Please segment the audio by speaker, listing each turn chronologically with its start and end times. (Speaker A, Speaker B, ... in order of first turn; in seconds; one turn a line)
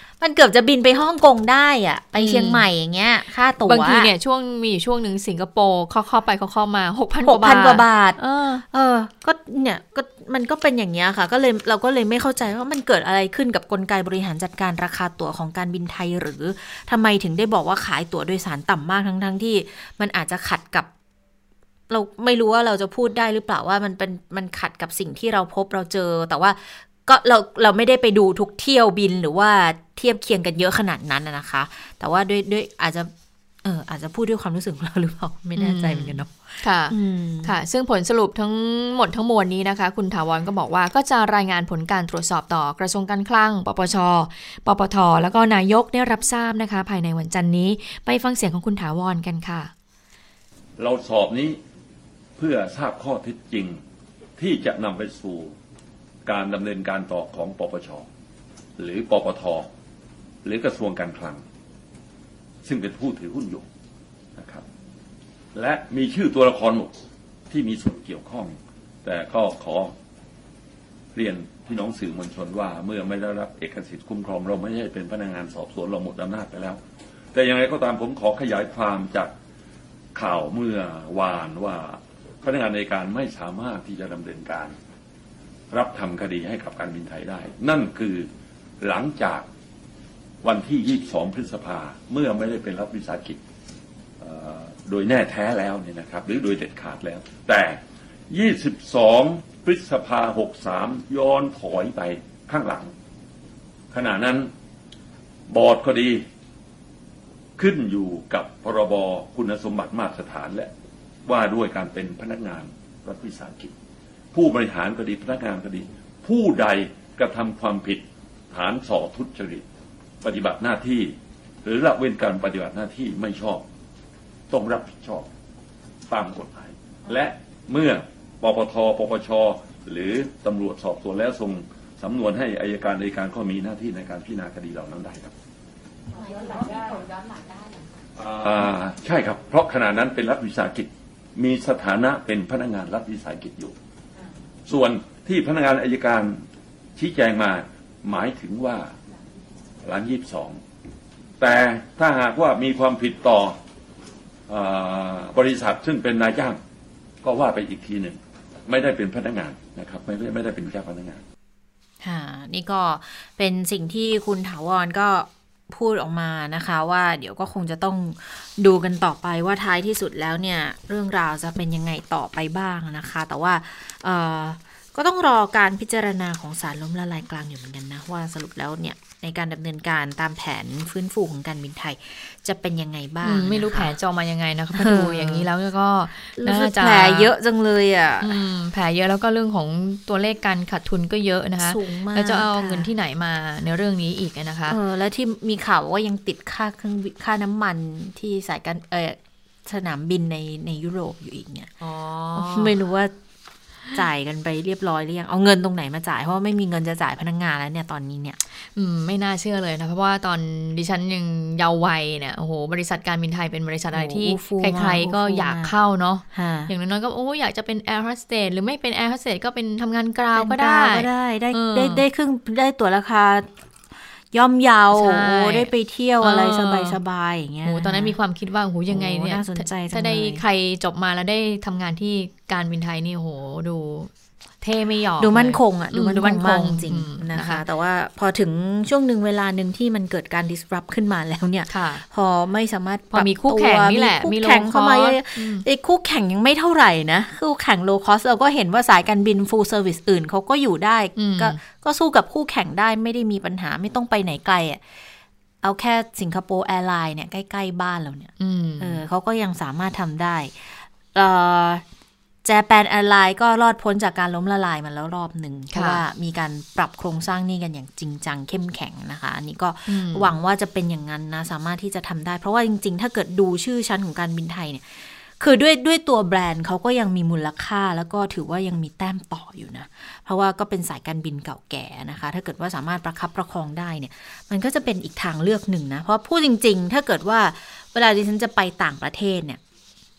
Speaker A: 0.2-4.1
Speaker B: 2.2-2.6
Speaker B: 3.6-8.6
Speaker A: 7.2-20.9
Speaker A: 21.9-33.1
Speaker A: 33.6-37.5
Speaker B: 35.6-49.7
Speaker C: 50.8-51.6
Speaker C: 52.4-53.8
Speaker C: 54.4-55.5
Speaker C: 56.3-58.1
Speaker C: 58.8-59.7
Speaker C: 60.4-61.4
Speaker C: 62.6-63.7
Speaker C: 64.4-64.7
Speaker C: 65.5-66.9
Speaker C: 67.5-69.9
Speaker C: 71.2-76.8
Speaker C: 77.3-79.3
Speaker C: 80.2-84.8
Speaker C: 85.7-88.3
Speaker C: 88.8-89.5
Speaker C: 90.4-93.4
Speaker C: 94.2-97.8
Speaker C: 98.3-102.9
Speaker C: 103.9-104.5
Speaker C: 105.5-106.2
Speaker C: 107.6-110.7
Speaker C: 111.3-113.7
Speaker C: 114.3-119.6
Speaker C: 120.2-121.1
Speaker C: 121.6-123.6
Speaker C: 124.5-125.3
Speaker C: 126.1-135.3
Speaker C: 138.2-143.7
Speaker C: 144.7-146.4
Speaker C: 147.0-148.9
Speaker C: 149.8-150.6
Speaker C: 151.4-153.6
Speaker C: 154.5-156.6
Speaker C: 157.2-161.2
Speaker A: 162.0-183.9
Speaker B: 183.2-187.3
Speaker A: 184.8-185.5
Speaker A: 186.4-188.4
Speaker B: 188.2-194.8
Speaker A: 191.6-192.9
Speaker A: 194.7-203.1
Speaker B: 202.3-202.8
Speaker A: 203.9-208.4
Speaker B: 208.8-222.1
Speaker A: 213.9-215.7
Speaker A: 216.3-216.7
Speaker A: 220.3-223.5
Speaker A: 224.3-228.2
Speaker B: 224.9-227.0
Speaker B: 227.7-234.1
Speaker A: 228.9-230.4
Speaker B: 234.6-237.6
Speaker A: 235.2-254.8
Speaker B: 241.7-242.1
Speaker B: 243.1-245.7
Speaker B: 251.2-251.6
Speaker A: 255.6-261.8
Speaker B: 258.4-259.0
Speaker A: 262.4-289.6
Speaker B: 265.7-266.0
Speaker B: 269.9-270.3